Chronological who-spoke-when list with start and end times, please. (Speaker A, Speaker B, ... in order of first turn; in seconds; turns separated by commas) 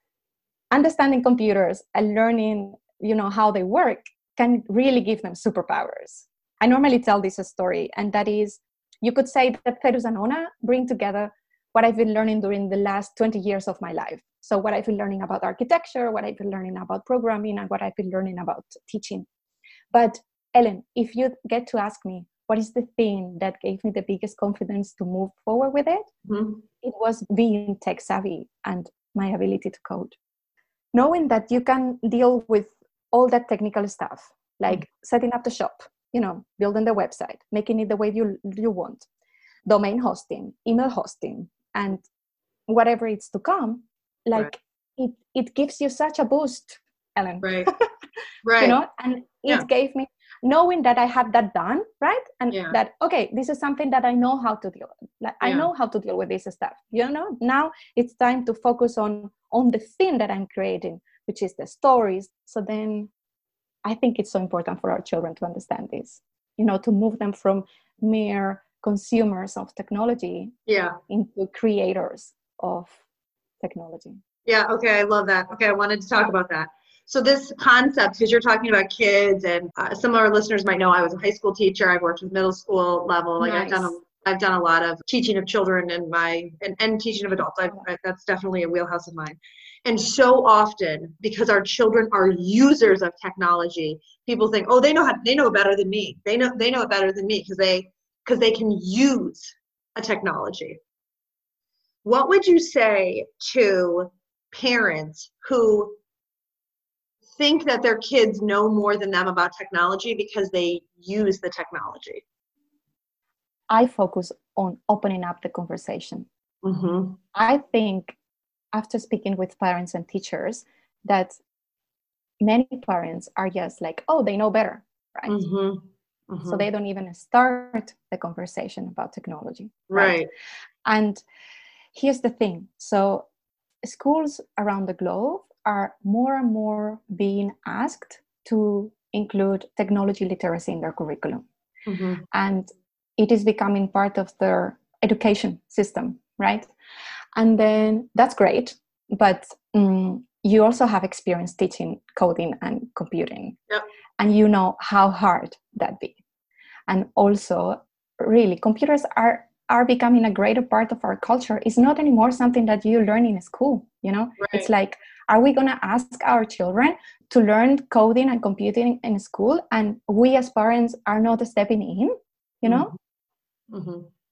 Speaker A: 0.7-19.2, Speaker A: 19.9-26.1, Speaker B: 26.3-26.6, Speaker A: 26.8-30.1, Speaker A: 30.9-39.1, Speaker A: 39.6-42.0, Speaker A: 42.7-47.9, Speaker B: 47.4-47.7, Speaker B: 48.4-48.8, Speaker A: 48.6-63.1, Speaker B: 52.5-52.8, Speaker B: 55.4-55.7, Speaker A: 63.9-70.5, Speaker B: 70.7-71.0, Speaker A: 71.1-73.0, Speaker A: 73.6-74.2, Speaker B: 74.5-100.8, Speaker A: 83.4-84.0, Speaker B: 102.0-106.0, Speaker B: 107.4-112.2, Speaker A: 113.7-116.3, Speaker B: 116.6-117.2, Speaker A: 117.3-118.2, Speaker A: 118.7-121.4, Speaker A: 122.4-125.4, Speaker B: 125.3-126.6, Speaker A: 126.5-130.2, Speaker B: 129.9-130.3, Speaker A: 130.8-131.2, Speaker A: 131.9-133.3, Speaker A: 133.8-141.4, Speaker B: 141.9-142.2, Speaker A: 142.3-146.7, Speaker A: 147.3-153.6, Speaker A: 154.2-156.2, Speaker A: 156.9-172.9, Speaker B: 164.4-164.7, Speaker B: 172.7-172.9, Speaker B: 173.7-174.1